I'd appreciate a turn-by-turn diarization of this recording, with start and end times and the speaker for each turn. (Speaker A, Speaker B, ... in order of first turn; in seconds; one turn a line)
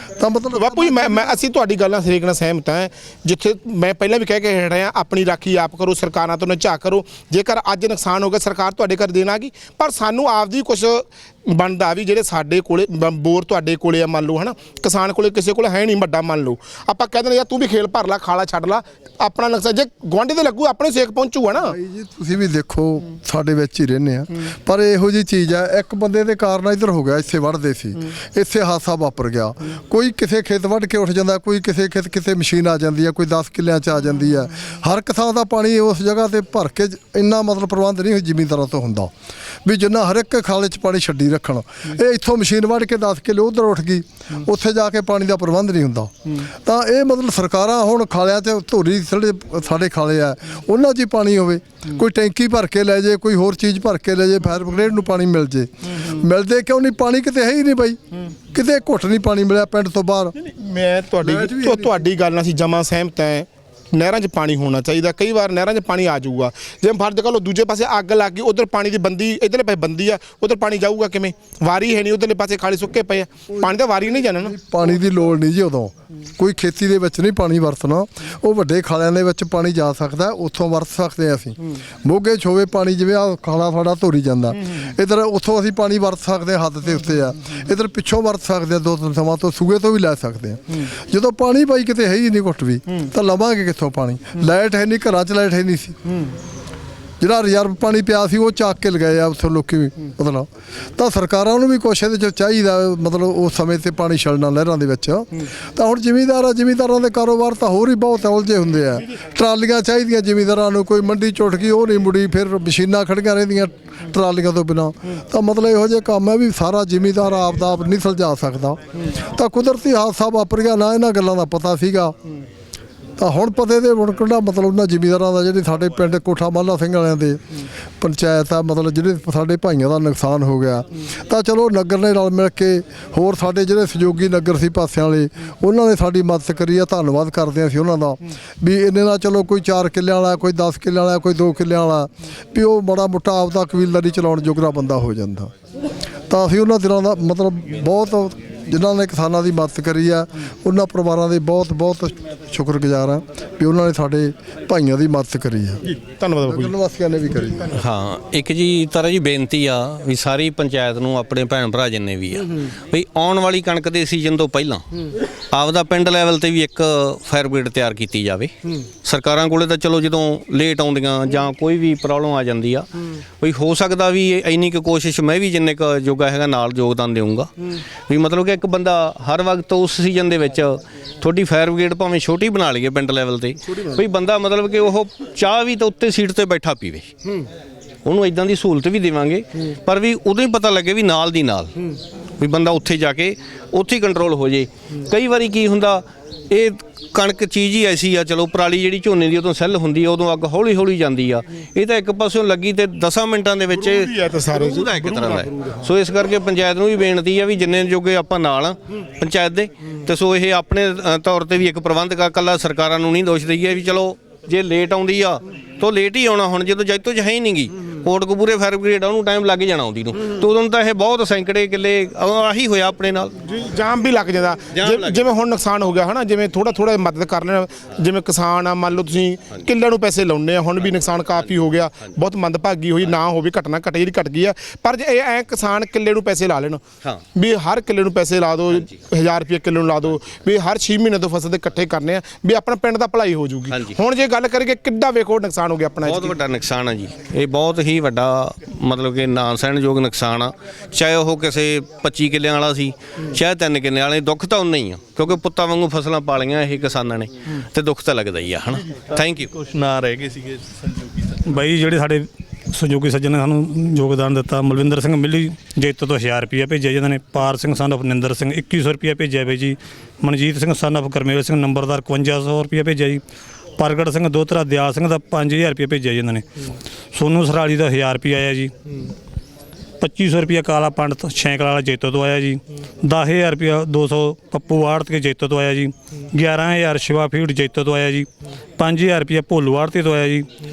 Speaker A: 0.2-1.4
Speaker B: 0.5-21.8
Speaker A: 21.6-39.1
Speaker A: 39.6-60.3
Speaker B: 60.4-74.6
Speaker A: 61.2-62.0
Speaker A: 74.4-96.0
Speaker A: 97.2-122.2
Speaker A: 123.2-145.5
Speaker A: 146.3-155.8
Speaker B: 155.9-156.7
Speaker A: 156.4-157.7
Speaker C: 157.7-164.9
Speaker C: 165.5-168.5
Speaker C: 169.0-177.5
Speaker C: 178.1-187.2
Speaker C: 188.1-191.8
Speaker C: 192.4-223.4
Speaker B: 203.7-205.8
Speaker B: 223.5-236.8
Speaker C: 224.7-225.3
Speaker B: 237.3-246.4
Speaker C: 243.7-244.0
Speaker C: 246.0-259.5
Speaker D: 259.1-261.4
Speaker E: 261.5-273.2
Speaker E: 273.8-278.7
Speaker E: 280.0-290.5